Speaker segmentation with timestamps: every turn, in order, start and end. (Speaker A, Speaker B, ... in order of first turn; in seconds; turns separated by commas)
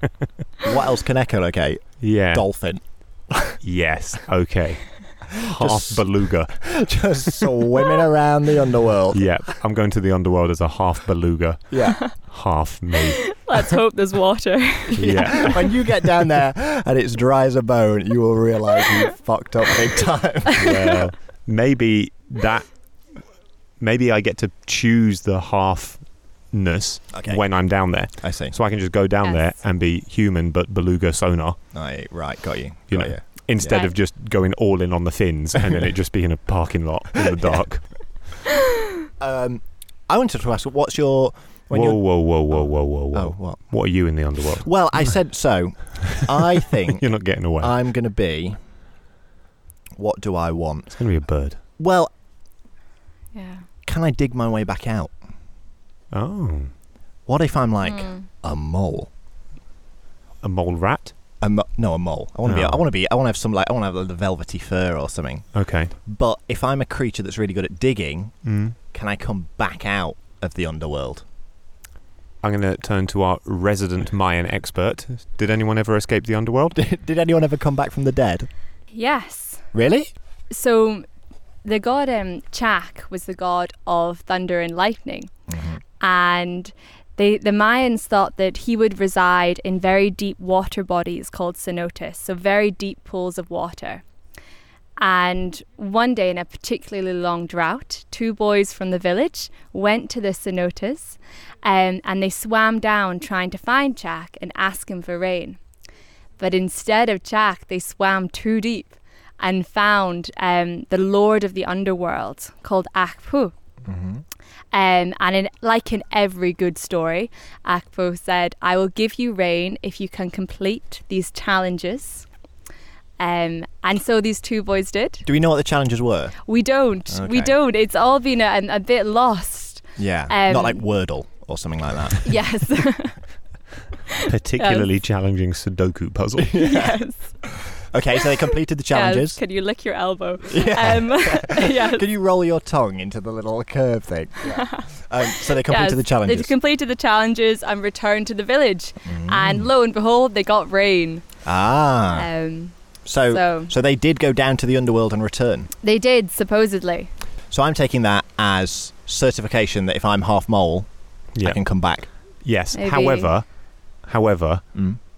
Speaker A: 0.6-3.6, Speaker B: 2.0-2.5, Speaker B: 3.6-6.8, Speaker A: 5.3-6.0, Speaker A: 6.6-9.3, Speaker B: 9.1-13.4, Speaker A: 11.7-12.0, Speaker C: 13.1-15.5, Speaker A: 14.9-20.9, Speaker B: 15.0-15.7, Speaker B: 20.6-22.7, Speaker B: 23.8-31.6, Speaker A: 27.1-27.4, Speaker A: 28.2-28.5, Speaker A: 31.7-33.8, Speaker B: 32.9-38.1, Speaker C: 33.7-34.0, Speaker A: 37.3-37.6, Speaker A: 39.2-43.6, Speaker B: 41.7-44.7, Speaker A: 44.6-48.6, Speaker B: 46.9-47.8, Speaker A: 50.0-51.0, Speaker B: 51.0-51.6, Speaker A: 51.8-52.1, Speaker C: 53.3-53.6, Speaker A: 53.9-55.1, Speaker B: 56.1-56.7, Speaker A: 57.3-59.1, Speaker C: 57.9-58.3, Speaker B: 60.4-61.1, Speaker A: 61.4-65.5, Speaker B: 62.5-62.8, Speaker B: 65.5-65.9, Speaker A: 66.0-68.4, Speaker B: 68.5-68.8, Speaker A: 68.9-71.2, Speaker B: 72.4-76.8, Speaker A: 76.8-78.5, Speaker C: 78.9-79.6, Speaker A: 79.7-80.1, Speaker C: 80.5-81.1, Speaker C: 81.6-85.3, Speaker A: 85.5-85.8, Speaker C: 86.0-94.0, Speaker C: 95.0-105.6, Speaker C: 106.4-113.5, Speaker A: 113.8-114.2, Speaker C: 114.7-122.3, Speaker C: 123.2-125.2, Speaker A: 125.2-126.4, Speaker C: 126.5-130.8, Speaker A: 127.1-127.5, Speaker A: 130.0-132.3, Speaker C: 132.2-133.2, Speaker B: 134.2-136.5, Speaker C: 134.3-134.9, Speaker A: 136.4-137.0, Speaker C: 136.5-137.3, Speaker A: 137.6-139.4, Speaker C: 138.9-142.0, Speaker A: 140.5-146.5, Speaker C: 144.4-151.2, Speaker A: 149.1-149.7, Speaker A: 151.4-152.3, Speaker C: 152.1-152.8, Speaker A: 153.1-155.7, Speaker C: 153.3-153.7, Speaker C: 155.8-157.1, Speaker A: 157.5-160.9, Speaker B: 161.4-161.6, Speaker A: 161.4-162.1, Speaker B: 162.4-163.5, Speaker C: 162.7-163.3, Speaker B: 164.1-164.7